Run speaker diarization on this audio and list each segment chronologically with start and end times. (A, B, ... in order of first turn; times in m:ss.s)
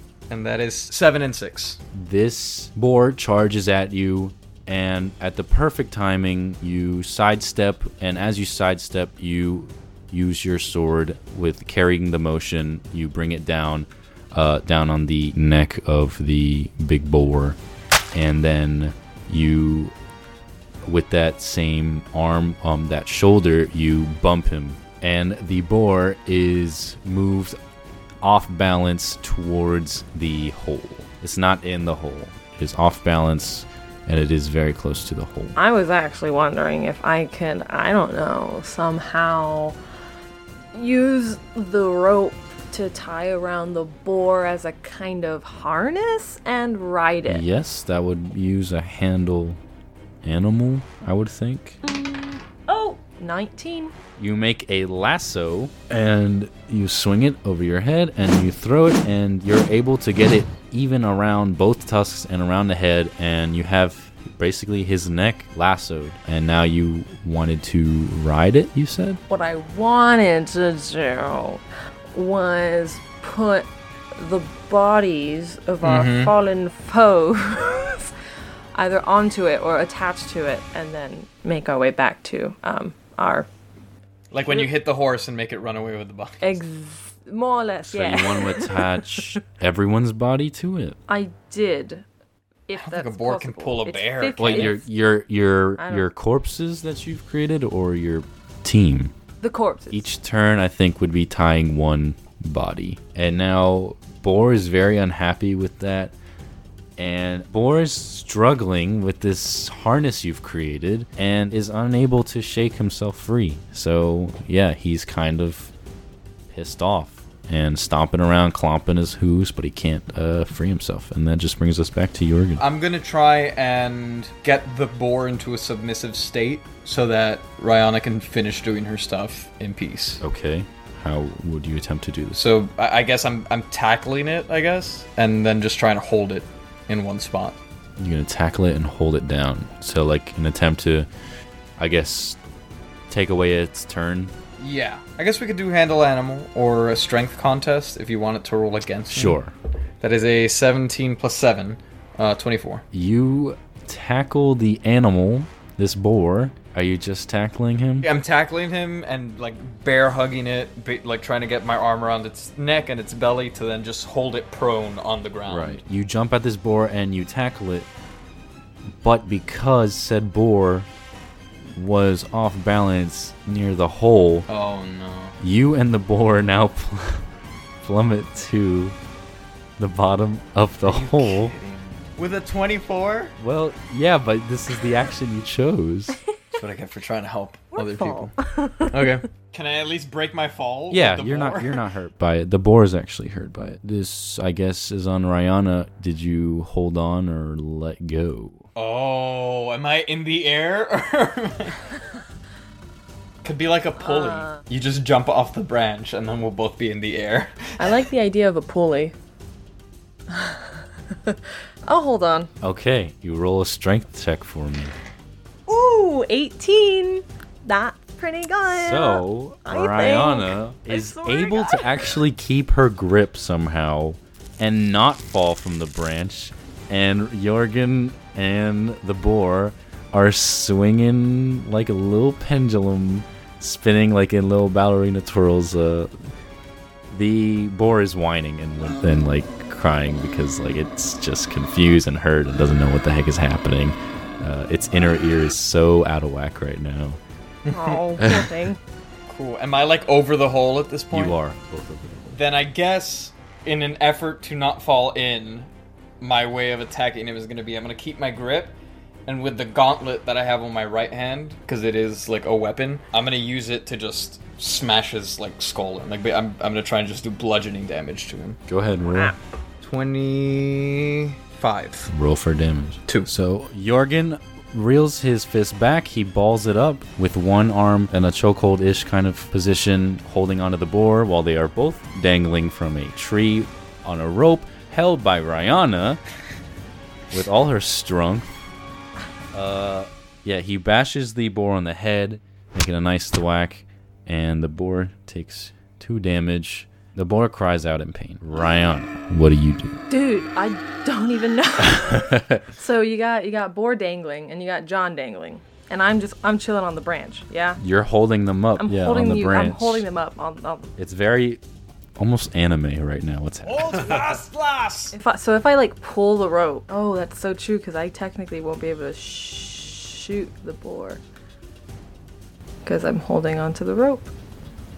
0:00.3-0:01.8 A
0:01.9-0:17.6 B
0:18.1-0:19.9 B
0:20.8-0:27.6 B
0:28.2-0:35.6 B
0:35.6-0:39.8 C
0:40.7-0:47.4 C
0:47.3-0:49.6 B
0:50.2-0:51.8 B
0:51.8-0:53.9 C
0:54.2-1:09.2 B
1:09.3-1:11.6 C
1:12.1-1:18.1 C
1:15.8-1:16.3 A
1:18.7-1:23.5 C
1:24.3-1:26.6 A
1:26.4-1:29.2 C
1:27.8-1:31.0 B
1:31.1-1:32.0 C
1:32.7-1:34.9 C
1:32.8-1:34.7 A
1:34.4-1:39.1 B
1:35.8-1:36.1 C
1:39.4-1:40.0 C
1:39.9-1:46.1 B
1:47.0-1:55.7 B
1:56.5-2:02.6 B
2:02.6-2:10.2 A
2:10.2-2:12.4 B
2:12.4-2:17.6 A
2:18.0-2:21.1 B
2:21.8-2:22.4 B
2:23.1-2:24.3 B
2:24.6-2:29.4 A
2:29.1-2:29.5 B
2:30.0-2:32.8 A
2:32.9-2:38.1 B
2:38.0-2:45.8 A
2:45.5-2:47.9 B
2:49.0-2:50.9 B
2:51.6-2:54.5 B
2:54.5-2:55.4 A
2:55.4-2:57.2 B
2:57.8-2:59.0 B
2:59.8-3:01.6 B
3:00.8-3:03.4 A
3:03.4-3:06.2 B
3:06.5-3:08.3 A
3:07.7-3:09.1 C
3:08.9-3:11.8 A
3:10.9-3:18.6 B
3:18.7-3:21.9 A
3:23.4-3:28.0 A
3:24.0-3:24.6 C
3:27.8-3:29.1 C
3:30.3-3:32.5 C
3:32.6-3:35.0 B
3:35.7-3:42.1 C
3:38.7-3:56.3 B
3:57.1-4:07.2 B
4:07.7-4:08.0 A
4:07.7-4:08.8 C
4:08.2-4:08.5 B
4:09.3-4:11.4 A
4:11.1-4:12.4 B
4:12.3-4:15.7 A
4:16.2-4:18.7 A
4:19.3-4:28.6 A
4:28.7-4:29.4 B
4:29.1-4:29.4 C
4:29.8-4:32.1 A
4:32.1-4:46.2 B
4:47.3-4:48.6 B
4:49.5-5:00.0 B
5:00.1-5:07.8 C
5:01.8-5:02.6 B
5:07.8-5:10.0 B
5:08.8-5:10.9 C
5:11.0-5:11.6 B
5:12.2-5:14.2 B
5:13.8-5:15.1 A
5:15.1-5:21.2 C
5:22.8-5:24.3 C